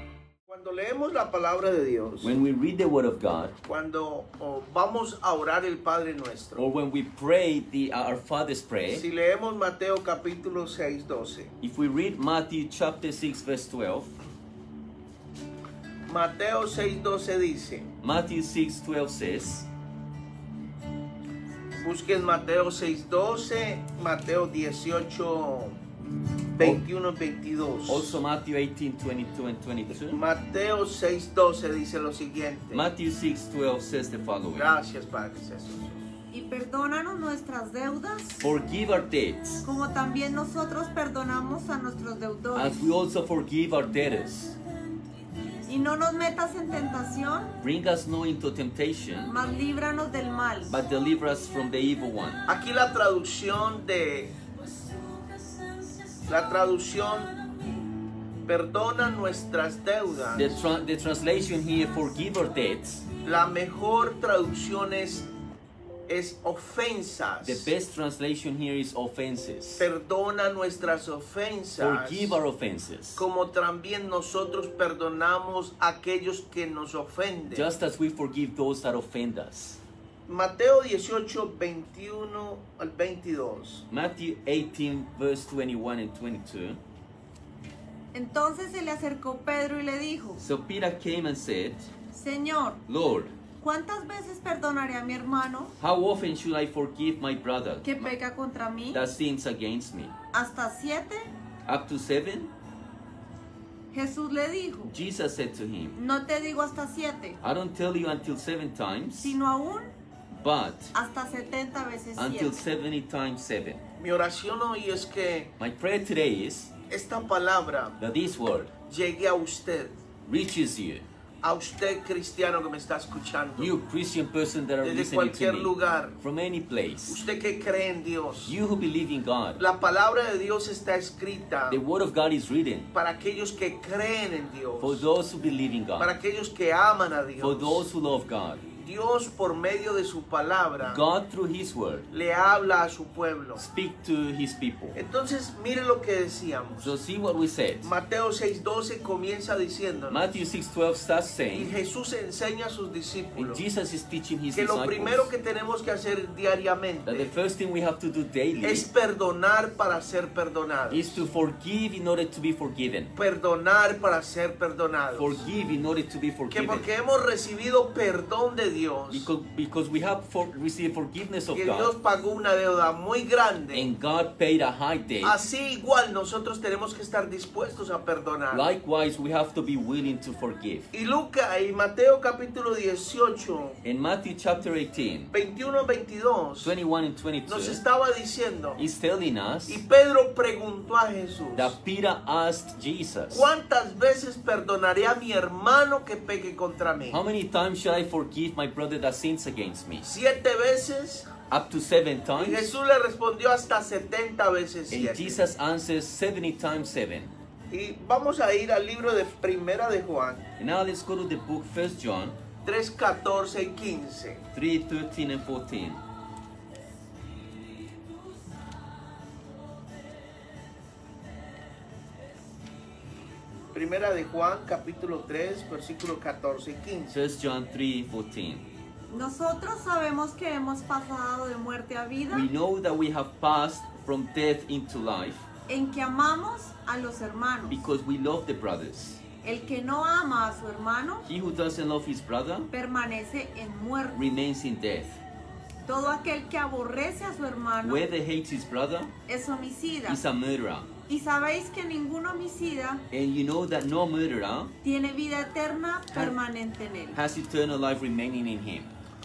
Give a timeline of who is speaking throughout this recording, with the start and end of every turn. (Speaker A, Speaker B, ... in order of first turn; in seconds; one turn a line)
Speaker A: 0.5-2.3
Speaker B: 2.2-3.5
Speaker A: 3.6-6.6
Speaker B: 6.6-9.0
Speaker A: 8.9-11.5
Speaker B: 11.6-14.1
Speaker A: 16.1-17.9
Speaker B: 18.0-19.7
Speaker A: 21.8-25.8
Speaker A: 26.6-28.2
Speaker B: 27.9-30.2
Speaker A: 30.1-32.9
Speaker B: 32.7-34.7
Speaker A: 34.5-36.1
Speaker C: 36.3-38.4
Speaker B: 38.4-39.7
Speaker C: 39.6-42.9
Speaker B: 42.5-44.6
Speaker C: 45.6-47.6
Speaker B: 47.6-49.4
Speaker C: 49.3-50.8
Speaker B: 50.7-52.4
Speaker A: 52.5-54.4
Speaker A: 56.3-57.3
Speaker A: 58.5-60.6
Speaker B: 60.4-63.1
Speaker A: 63.2-65.3
Speaker A: 66.1-67.7
Speaker B: 67.4-69.9
Speaker A: 69.8-72.4
Speaker B: 71.8-73.2
Speaker A: 73.2-77.7
Speaker B: 77.5-79.8
Speaker A: 80.3-83.9
Speaker B: 83.9-86.8
Speaker C: 88.1-90.4
Speaker B: 90.4-91.9
Speaker C: 92.1-92.8
Speaker B: 92.9-93.4
Speaker C: 93.6-95.8
Speaker B: 95.8-98.1
Speaker C: 97.8-99.1
Speaker B: 98.9-100.2
Speaker C: 100.3-101.3
Speaker B: 101.7-102.5
Speaker C: 103.9-105.0
Speaker B: 104.9-106.0
Speaker C: 106.0-107.4
Speaker B: 107.4-109.4
Speaker C: 109.2-109.9
Speaker B: 110.3-110.9
Speaker C: 111.0-112.6
Speaker B: 112.2-113.8
Speaker A: 114.0-115.5
Speaker B: 115.6-116.7
Speaker A: 116.9-118.0
Speaker B: 118.0-118.7
Speaker A: 118.9-120.0
Speaker B: 120.2-121.0
Speaker A: 121.4-123.8
Speaker B: 123.6-127.2
Speaker A: 124.8-126.2
Speaker A: 127.1-128.6
Speaker B: 128.4-129.6
Speaker A: 129.6-131.8
Speaker B: 131.7-132.9
Speaker A: 132.9-135.1
Speaker B: 134.8-136.1
Speaker A: 136.0-137.9
Speaker B: 137.4-138.7
Speaker A: 138.8-141.0
Speaker B: 140.8-142.1
Speaker A: 142.1-143.7
Speaker B: 143.6-145.0
Speaker A: 144.9-146.9
Speaker B: 146.8-147.9
Speaker A: 147.8-150.4
Speaker B: 150.1-151.7
Speaker A: 151.5-153.6
Speaker B: 153.4-155.3
Speaker A: 154.5-157.3
Speaker B: 157.1-158.9
Speaker A: 158.6-161.2
Speaker B: 160.9-163.1
Speaker A: 163.2-165.4
Speaker B: 165.2-166.9
Speaker A: 166.5-169.3
Speaker B: 169.1-171.9
Speaker A: 171.5-173.9
Speaker B: 173.7-175.4
Speaker A: 175.2-178.7
Speaker B: 178.5-180.9
Speaker A: 180.9-183.8
Speaker B: 183.8-185.3
Speaker A: 185.3-186.7
Speaker B: 186.6-187.8
Speaker A: 187.5-188.8
Speaker B: 188.8-189.8
Speaker A: 189.7-191.8
Speaker B: 191.6-193.5
Speaker A: 193.3-197.2
Speaker B: 197.1-200.1
Speaker A: 200.0-201.3
Speaker B: 201.5-202.8
Speaker A: 202.4-205.4
Speaker B: 204.9-207.3
Speaker A: 207.7-210.5
Speaker B: 210.6-212.4
Speaker A: 212.6-214.4
Speaker B: 214.5-216.0
Speaker A: 223.7-227.2
Speaker B: 227.1-228.7
Speaker C: 229.1-232.5
Speaker B: 232.3-235.5
Speaker C: 235.7-237.8
Speaker B: 237.7-239.2
Speaker C: 239.4-241.3
Speaker B: 241.2-242.7
Speaker C: 242.7-244.2
Speaker B: 244.1-245.2
Speaker C: 245.9-248.1
Speaker B: 247.8-249.1
Speaker C: 249.3-250.2
Speaker B: 250.1-250.9
Speaker C: 251.1-253.0
Speaker B: 253.1-254.7
Speaker C: 254.8-257.2
Speaker B: 257.1-258.9